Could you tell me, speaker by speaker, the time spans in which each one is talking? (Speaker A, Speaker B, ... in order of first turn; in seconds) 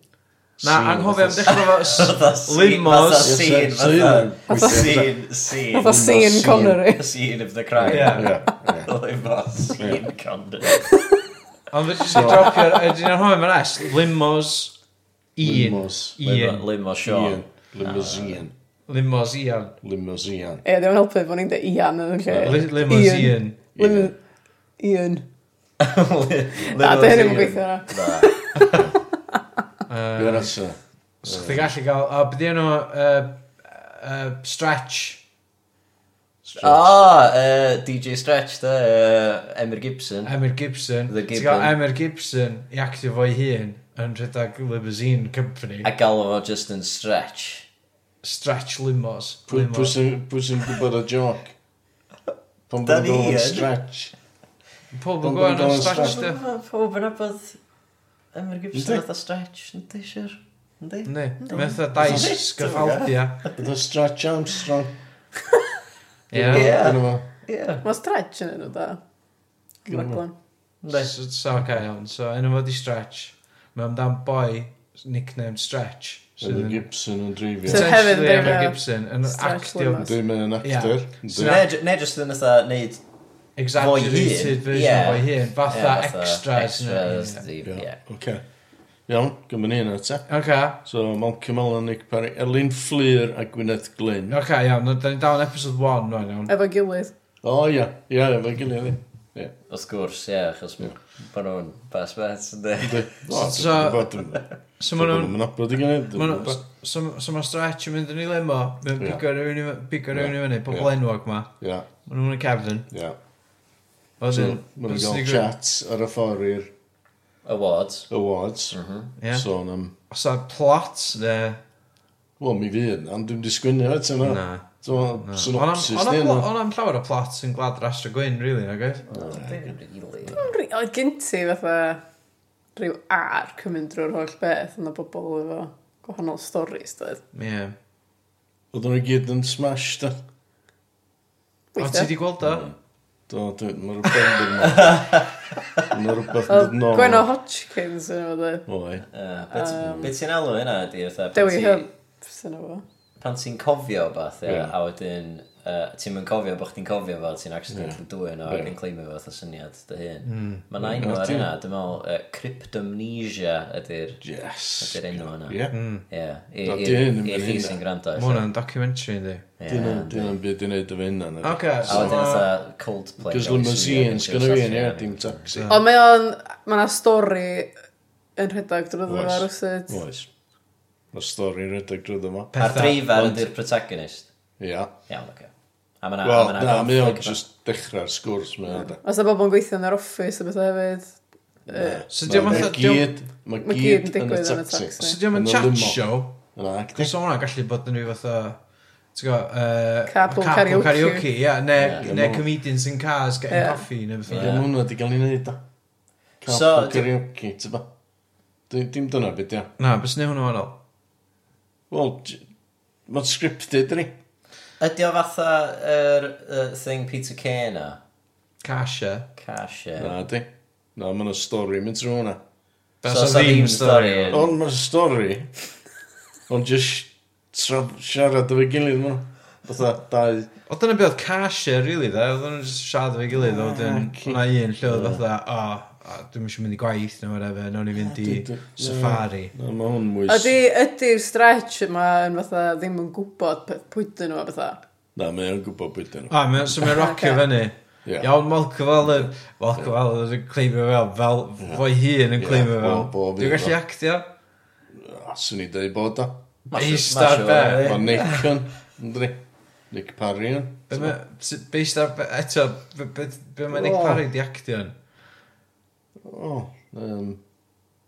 Speaker A: 0.6-1.7, 3.2-5.2, 5.8-6.8, 7.8-8.9, 9.8-10.0, 12.1-12.6, 15.4-16.2, 17.0-18.5, 19.8-20.6, 22.3-22.7, 23.8-24.1, 30.2-31.7, 36.4-36.9, 49.5-51.5, 52.7-54.1, 55.2-56.2, 58.7-59.0, 62.0-62.3, 63.5-65.0, 66.3-67.2, 69.9-70.2, 76.4-78.5, 80.0-81.6, 87.6-88.4, 89.1-90.2, 90.8-94.4, 97.4-99.5, 102.8-106.6, 110.1-110.9, 111.6-111.9, 112.9-113.2, 114.3-116.7, 118.1-118.8, 119.3-119.9, 122.4-126.5, 129.1-129.8, 138.7-140.2, 143.3-145.1, 145.9-147.3, 148.7-149.0, 154.4-154.7, 157.7-158.7, 160.8-161.5, 164.2-165.8, 166.6-167.8, 169.7-172.4, 173.2-175.7, 179.1-180.3, 181.1-183.5, 184.6-184.9, 186.2-189.0, 191.7-196.0, 196.5-197.1, 201.9-202.5, 204.3-205.6, 206.4-207.8, 208.7-209.7, 211.9-212.4, 213.1-214.2, 220.0-222.4, 224.3-225.5, 226.5-230.5, 233.3-235.2, 237.9-240.6, 245.2-246.4, 248.1-248.3, 249.0-249.9, 251.6-251.8, 252.4-253.8, 254.9-256.4, 257.8-261.2, 263.7-264.2, 266.2-267.4
Speaker B: 0.6-3.4, 7.8-8.3, 11.7-14.8, 15.3-16.6, 18.9-19.7, 22.4-23.6, 29.9-30.5, 31.2-35.2, 40.2-45.9, 48.2-49.9, 54.9-56.4, 61.0-63.4, 66.3-66.8, 70.9-76.8, 77.7-81.7, 83.6-87.4, 90.3-90.8, 94.3-96.5, 103.3-104.1, 104.8-105.4, 106.1-111.5, 112.0-112.9, 114.2-115.4, 119.2-119.5, 120.1-121.6, 124.2-124.7, 125.2-129.1, 137.3-137.7, 141.8-142.7, 160.2-160.6, 165.7-166.0, 168.2-169.5, 171.4-172.5, 175.5-175.8, 182.5-183.1, 192.1-193.1, 195.0-196.4, 196.9-198.6, 199.1-204.6, 209.8-210.7, 218.6-219.3, 223.0-224.4, 230.7-239.5, 246.3-254.3, 256.7-258.0, 260.9-264.9
Speaker C: 1.4-10.9, 16.2-18.4, 25.8-28.8, 36.6-40.4, 41.1-41.7, 45.8-47.7, 52.8-53.7, 55.7-57.6, 58.3-63.7, 66.5-67.8, 70.8-71.1, 81.3-83.0, 83.7-88.0, 99.7-103.2, 117.4-118.1, 118.7-119.1, 129.1-130.4, 144.6-145.8, 149.1-151.8, 153.2-164.2, 164.8-168.5, 169.6-170.3, 171.8-175.5, 182.6-184.3, 185.1-185.5, 186.0-187.4, 201.8-202.1, 204.2-204.6, 206.4-207.1, 214.8-218.0, 219.4-220.2, 223.0-224.5, 256.7-258.5
Speaker D: 4.5-5.0, 5.6-7.1, 20.6-24.1, 24.8-25.2, 26.7-29.4, 67.8-69.0, 69.8-70.3, 77.7-80.1, 96.5-97.1, 130.3-132.0, 132.8-137.2, 141.7-142.1, 146.5-148.7, 149.5-150.1, 151.3-152.8, 175.7-177.7, 178.4-180.0, 189.0-192.5, 193.6-195.2, 200.1-201.3, 203.5-203.8, 240.3-244.8, 246.8-247.4